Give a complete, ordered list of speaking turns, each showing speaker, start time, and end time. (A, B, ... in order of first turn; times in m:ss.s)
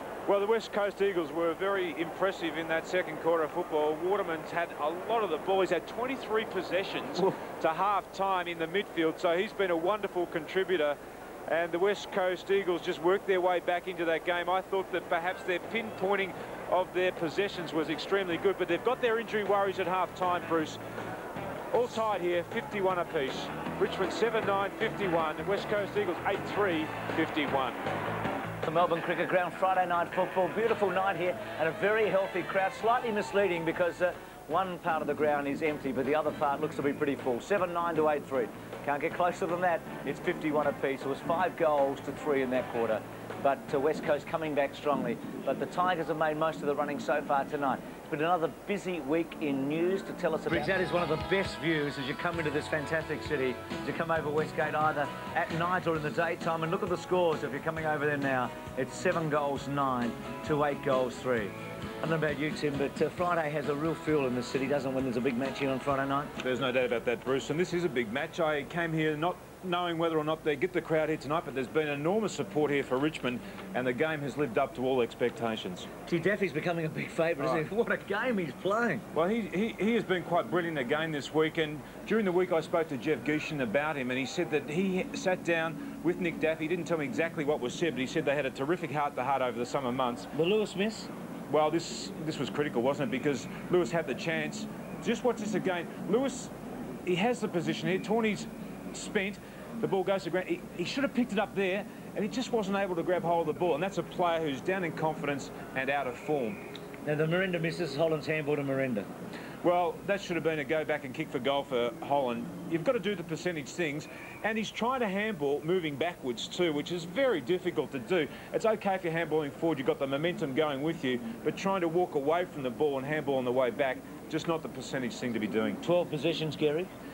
0:00.3-0:20.8 A
0:21.7-0:27.8 A
0:28.6-1:06.3 B
1:06.4-1:15.9 A
1:16.1-1:19.0 B
1:19.1-1:30.3 A
1:30.3-1:31.1 B
1:31.5-1:36.5 A
1:37.1-1:46.6 A
1:47.0-1:49.1 B
1:49.6-2:05.8 A
2:05.8-2:06.9 B